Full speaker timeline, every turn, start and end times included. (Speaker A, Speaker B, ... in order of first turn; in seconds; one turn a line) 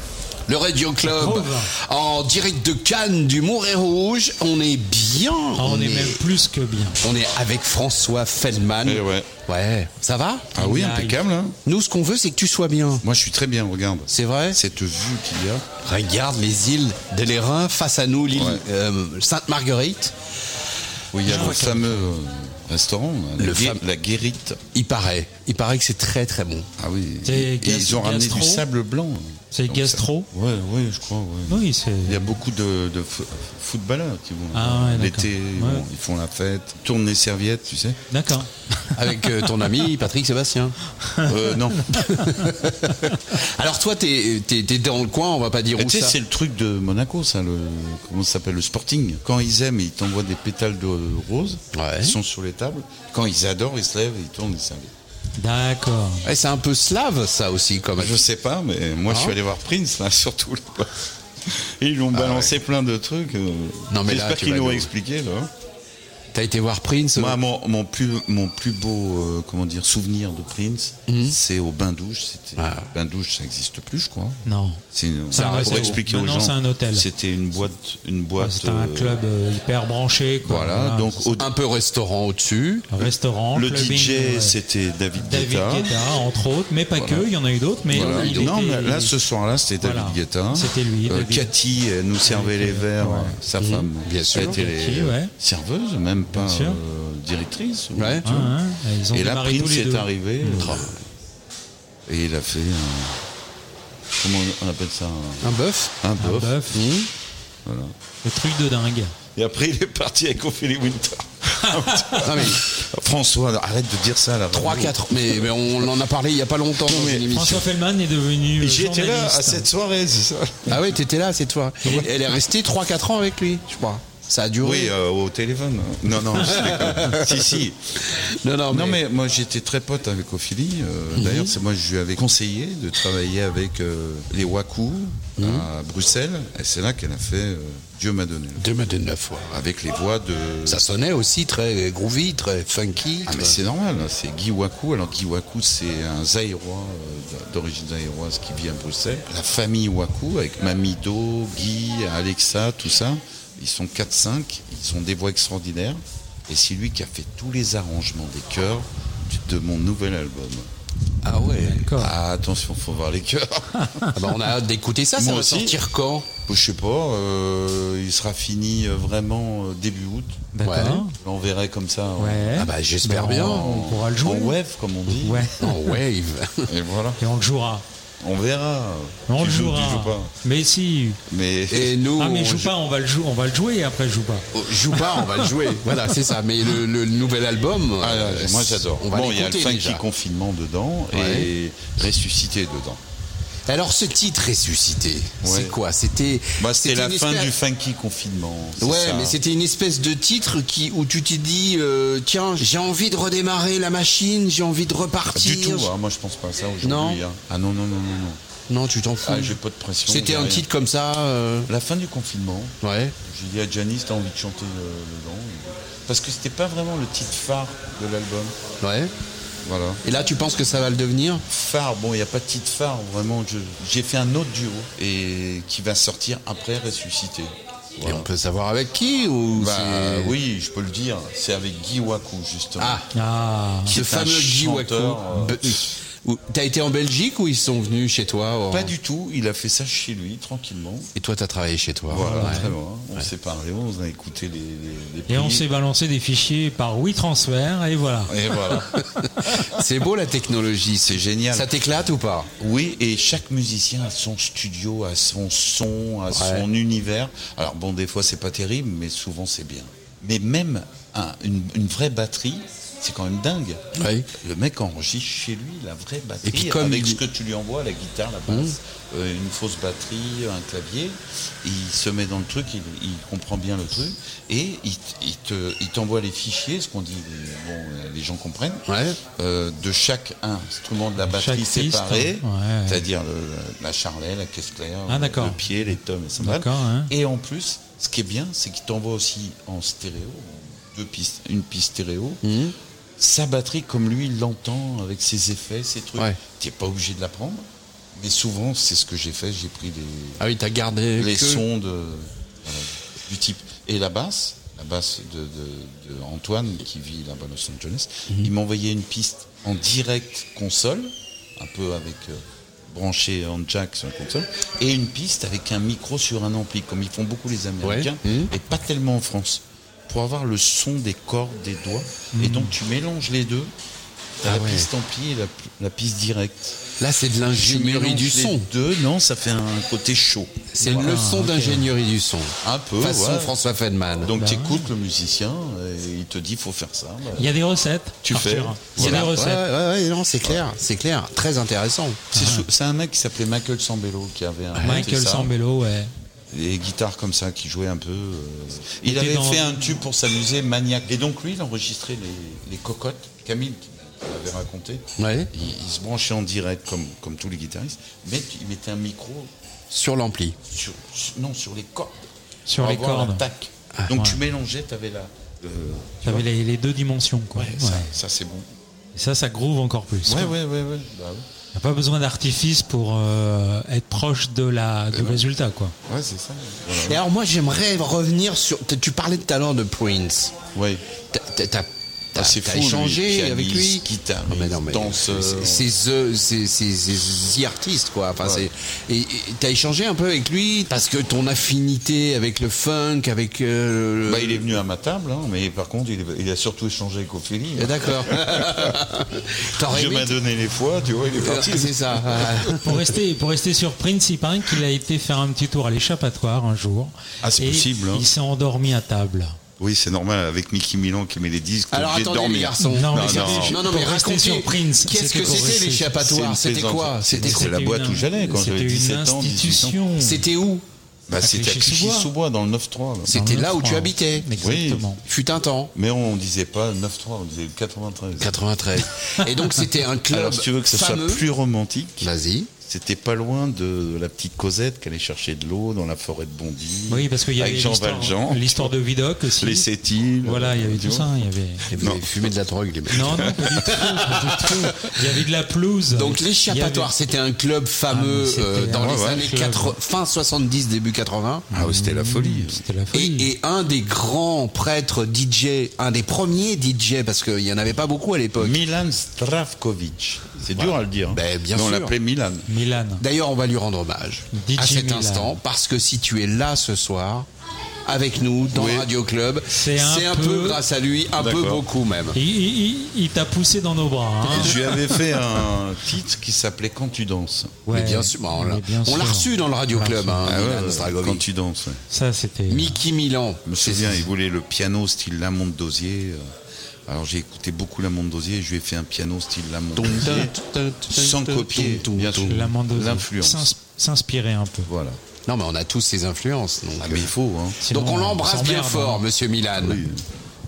Speaker A: 0.5-6.2
Speaker B: 1.0-1.7
Speaker B: 5.5-7.0
Speaker A: 7.0-10.5
Speaker C: 8.8-9.3
Speaker C: 10.5-11.6
Speaker B: 10.6-11.2
Speaker A: 11.7-13.0
Speaker C: 13.0-15.7
Speaker A: 14.1-14.6
Speaker A: 15.8-20.1
Speaker C: 18.3-18.6
Speaker C: 21.1-24.6
Speaker B: 21.2-22.1
Speaker A: 23.4-23.8
Speaker A: 24.7-26.7
Speaker C: 26.8-38.0
Speaker B: 27.2-28.6
Speaker B: 29.5-30.3
Speaker B: 31.5-32.2
Speaker B: 34.5-35.8
Speaker B: 38.1-38.9
Speaker A: 39.0-40.8
Speaker B: 41.0-42.5
Speaker C: 41.2-42.1
Speaker A: 42.2-46.2
Speaker C: 45.8-54.9
Speaker A: 51.7-52.1
Speaker B: 55.4-56.2
Speaker A: 56.2-58.2
Speaker C: 58.0-60.9
Speaker A: 59.1-59.4
Speaker C: 61.5-65.5
Speaker A: 62.1-62.5
Speaker A: 63.9-64.9
Speaker A: 66.3-67.4
Speaker C: 67.1-79.2
Speaker A: 71.1-71.3
Speaker A: 72.6-72.9
Speaker B: 74.4-74.8
Speaker A: 75.3-76.0
Speaker B: 75.3-77.0
Speaker B: 78.4-81.3
Speaker C: 80.4-81.5
Speaker A: 81.4-82.8
Speaker B: 82.9-84.5
Speaker C: 83.5-85.9
Speaker B: 85.2-89.1
Speaker C: 87.0-87.3
Speaker C: 87.9-98.5
Speaker A: 87.9-88.6
Speaker B: 89.8-91.5
Speaker B: 92.2-93.3
Speaker A: 93.6-94.6
Speaker B: 94.4-95.3
Speaker B: 96.3-96.8
Speaker A: 98.0-98.2
Speaker B: 98.2-100.7
Speaker C: 99.1-100.9
Speaker A: 100.5-100.9
Speaker C: 102.1-103.2
Speaker C: 104.2-106.7
Speaker A: 105.4-105.9
Speaker B: 106.2-106.8
Speaker A: 106.7-107.1
Speaker C: 107.6-107.9
Speaker B: 108.2-109.1
Speaker C: 109.3-115.5
Speaker B: 111.9-112.2
Speaker A: 112.2-112.6
Speaker A: 114.5-117.6
Speaker C: 116.9-117.3
Speaker B: 117.2-119.7
Speaker C: 118.6-120.8
Speaker A: 120.7-124.9
Speaker C: 124.6-127.9
Speaker A: 126.3-129.0
Speaker C: 128.7-138.7
Speaker A: 131.1-131.5
Speaker A: 135.4-135.7
Speaker A: 138.6-139.6
Speaker C: 139.5-140.8
Speaker A: 140.7-143.6
Speaker C: 143.2-160.7
Speaker A: 161.2-161.9
Speaker B: 161.7-162.1
Speaker C: 162.0-164.1
Speaker B: 163.8-164.1
Speaker A: 164.1-166.3
Speaker C: 165.2-165.8
Speaker C: 166.4-172.6
Speaker B: 170.5-171.1
Speaker A: 170.6-171.0
Speaker B: 172.2-174.6
Speaker A: 172.5-173.8
Speaker C: 173.2-175.5
Speaker B: 175.2-176.0
Speaker A: 175.6-176.7
Speaker C: 176.7-177.2
Speaker B: 177.2-177.8
Speaker C: 178.2-180.3
Speaker B: 179.3-181.2
Speaker C: 181.3-182.0
Speaker A: 181.7-182.7
Speaker B: 182.2-184.5
Speaker A: 184.5-190.0
Speaker B: 185.0-185.4
Speaker C: 188.0-193.0
Speaker A: 191.1-191.5
Speaker A: 193.7-197.5
Speaker C: 195.4-195.8
Speaker C: 196.6-199.4
Speaker A: 198.8-205.9
Speaker C: 205.3-208.4
Speaker A: 206.8-207.2
Speaker A: 208.7-211.7
Speaker C: 209.2-210.7
Speaker C: 211.7-218.6
Speaker A: 212.8-213.1
Speaker A: 218.8-219.1
Speaker C: 219.6-220.0
Speaker A: 220.0-221.4
Speaker C: 221.5-228.3
Speaker A: 228.0-230.3
Speaker C: 229.6-233.0
Speaker A: 232.8-233.0
Speaker B: 233.1-234.0
Speaker A: 233.9-238.9
Speaker C: 233.9-235.8
Speaker C: 238.7-241.1
Speaker A: 241.1-242.6
Speaker C: 242.1-245.6
Speaker B: 242.2-242.7
Speaker B: 245.3-248.3
Speaker C: 248.3-248.9
Speaker A: 248.8-252.5
Speaker C: 251.0-251.7
Speaker C: 252.6-278.8
Speaker A: 256.3-256.6
Speaker A: 263.9-264.3
Speaker A: 266.4-267.2
Speaker A: 268.5-268.7
Speaker A: 278.9-279.2
Speaker C: 279.4-292.4
Speaker B: 281.3-283.0
Speaker B: 285.1-285.6
Speaker B: 286.4-287.1
Speaker A: 292.4-292.7
Speaker C: 293.2-300.4
Speaker A: 300.4-301.6
Speaker C: 301.2-323.7
Speaker A: 317.8-318.5
Speaker B: 322.3-322.7
Speaker C: 324.4-326.8
Speaker A: 324.4-324.9
Speaker A: 327.0-328.7
Speaker C: 327.5-331.2
Speaker A: 330.7-334.3
Speaker B: 330.8-331.9
Speaker C: 332.6-333.6
Speaker C: 334.2-337.5
Speaker B: 334.4-334.9
Speaker B: 337.4-339.6
Speaker C: 338.2-339.3
Speaker A: 339.0-342.3
Speaker C: 342.3-345.5
Speaker B: 342.4-342.6
Speaker A: 344.7-345.1
Speaker B: 344.8-346.1
Speaker C: 346.5-359.5
Speaker B: 349.0-350.0
Speaker A: 355.2-355.5
Speaker A: 359.9-360.6
Speaker C: 360.7-362.1
Speaker B: 362.7-363.4
Speaker C: 362.8-366.5
Speaker B: 366.2-368.1
Speaker C: 367.6-368.7
Speaker B: 369.1-370.5
Speaker C: 370.2-371.4
Speaker B: 371.7-375.9
Speaker C: 375.1-375.4
Speaker C: 376.1-377.2
Speaker A: 377.0-380.6
Speaker C: 380.7-381.0
Speaker A: 381.3-394.6
Speaker C: 382.3-385.9
Speaker C: 388.4-388.7
Speaker C: 394.2-398.9
Speaker A: 397.8-400.4
Speaker C: 399.8-402.8
Speaker A: 401.4-402.9
Speaker B: 402.8-409.6
Speaker C: 407.4-408.3
Speaker C: 409.8-413.8
Speaker A: 411.9-417.7
Speaker B: 412.8-416.2
Speaker C: 416.2-420.0
Speaker B: 417.3-420.4
Speaker A: 420.2-420.8
Speaker C: 421.3-423.3
Speaker B: 421.4-422.3
Speaker A: 423.2-424.5
Speaker B: 423.3-425.2
Speaker C: 424.6-425.2
Speaker A: 425.2-425.9
Speaker C: 425.9-428.6
Speaker A: 428.4-431.4
Speaker C: 430.3-432.3
Speaker A: 432.2-432.7
Speaker C: 432.8-439.0
Speaker B: 437.1-439.9
Speaker C: 439.6-441.4
Speaker B: 440.4-441.9
Speaker A: 441.9-444.8
Speaker C: 442.0-442.5
Speaker B: 443.1-447.1
Speaker A: 446.1-451.6
Speaker B: 448.1-449.9
Speaker C: 449.0-449.5
Speaker C: 451.7-452.8
Speaker B: 451.7-453.5
Speaker A: 453.1-458.8
Speaker C: 458.6-462.7
Speaker A: 460.7-462.1
Speaker B: 462.7-463.2
Speaker A: 463.2-467.5
Speaker B: 464.5-465.6
Speaker A: 468.1-472.4
Speaker C: 468.7-469.1
Speaker B: 469.8-470.8
Speaker C: 471.4-471.8
Speaker B: 472.3-474.8
Speaker C: 474.5-477.8
Speaker B: 477.9-480.5
Speaker A: 477.9-481.4
Speaker C: 480.4-482.0
Speaker B: 482.1-483.0
Speaker A: 482.7-484.2
Speaker C: 483.6-486.5
Speaker C: 487.1-490.5
Speaker A: 489.9-492.6
Speaker C: 491.1-493.7
Speaker B: 492.5-494.9
Speaker C: 494.9-495.2
Speaker A: 495.5-497.3
Speaker C: 497.1-497.8
Speaker B: 497.8-499.3
Speaker A: 497.9-500.0
Speaker C: 499.8-500.2